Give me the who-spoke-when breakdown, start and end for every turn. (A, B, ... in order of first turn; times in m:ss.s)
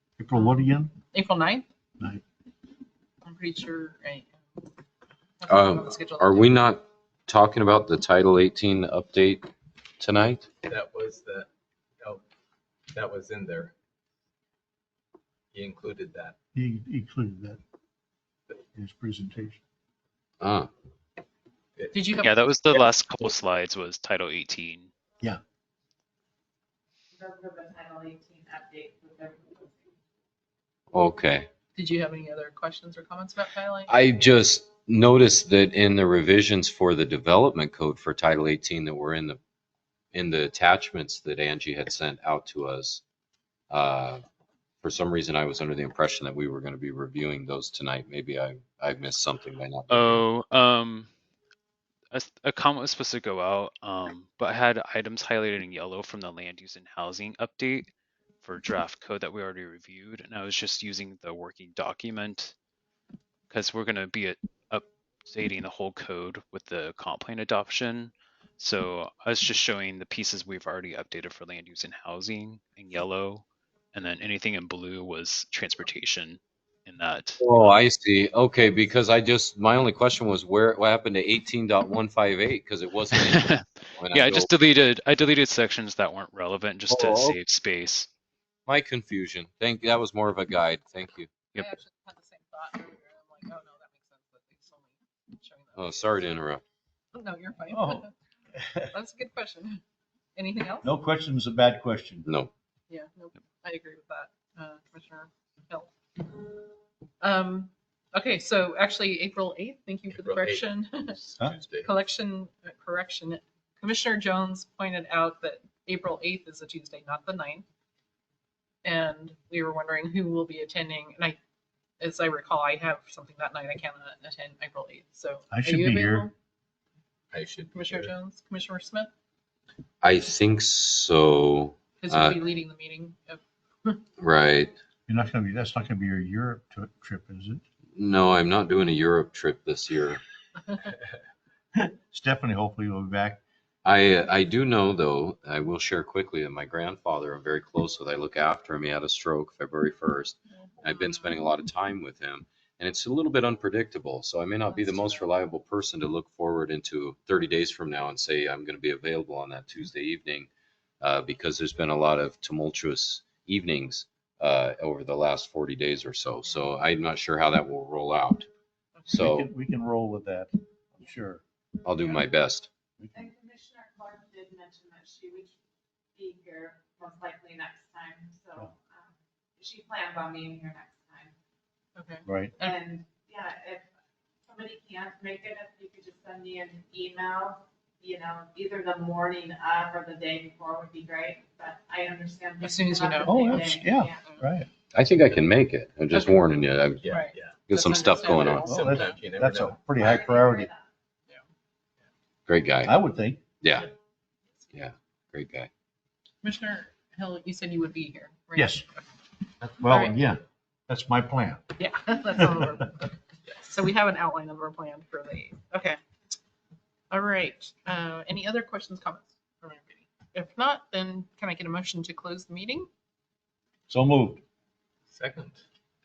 0:00.2-0:00.9 A
0:00.4-0:01.7 B
0:03.2-0:04.6 B
0:05.4-0:06.6 B
0:05.5-0:09.5 C
0:10.0-0:10.5 C
0:10.6-0:11.5 D
0:12.9-0:13.7 D
0:15.5-0:16.4 D
0:16.6-0:17.6 A
0:18.8-0:19.6 A
0:20.4-0:20.7 C
0:21.8-0:22.1 D
0:21.9-0:22.9 B
0:22.2-0:24.9 E
0:27.2-0:29.9 F
0:30.9-0:31.5 C
0:31.8-0:33.9 B
0:33.9-0:39.4 C
0:40.1-0:43.0 C
0:43.7-0:44.2 C
0:44.8-0:50.2 C
0:49.9-0:51.1 E
0:52.1-0:57.9 E
0:58.4-1:02.5 E
1:03.5-1:17.5 E
1:17.4-1:24.5 C
1:23.1-1:28.1 E
1:26.9-1:27.4 C
1:28.7-1:31.3 C
1:31.6-1:36.3 B
1:35.8-1:36.6 C
1:37.1-1:38.1 B
1:37.7-1:38.9 A
1:38.9-1:39.8 B
1:40.4-1:40.9 B
1:40.8-1:42.3 A
1:42.2-1:42.5 C
1:42.9-1:45.9 B
1:47.2-1:51.2 B
1:50.1-1:51.9 D
1:51.8-1:57.6 B
1:58.8-2:01.4 B
2:02.0-2:06.3 B
2:05.5-2:06.3 A
2:07.3-2:08.1 D
2:07.7-2:09.1 B
2:10.0-2:12.4 C
2:12.0-2:14.0 B
2:14.2-2:14.8 C
2:15.1-2:17.6 A
2:18.0-2:20.2 C
2:20.6-2:21.0 B
2:21.8-2:23.4 A
2:23.8-2:40.5 C
2:41.0-2:48.5 C
2:49.0-2:49.2 B
2:49.1-2:49.5 C
2:49.1-2:51.4 A
2:51.8-2:52.7 C
2:53.0-2:53.3 A
2:53.2-2:55.5 F
2:56.2-3:01.3 F
3:02.0-3:02.8 B
3:02.3-3:02.5 A
3:02.6-3:03.9 F
3:04.5-3:14.2 F
3:12.6-3:14.4 B
3:13.2-3:14.7 A
3:14.9-3:18.7 C
3:16.1-3:16.4 B
3:17.0-3:19.8 D
3:17.1-3:19.1 B
3:18.6-3:20.7 A
3:20.0-3:20.8 F
3:22.5-3:22.9 C
3:22.8-3:23.5 A
3:23.6-3:23.9 C
3:24.7-3:25.7 C
3:26.4-3:29.0 B
3:28.6-3:28.8 A
3:29.6-3:31.6 A
3:29.9-3:30.2 B
3:31.8-3:36.0 B
3:32.4-3:32.7 A
3:37.1-3:42.9 B
3:43.9-3:44.4 A
3:45.1-3:45.6 D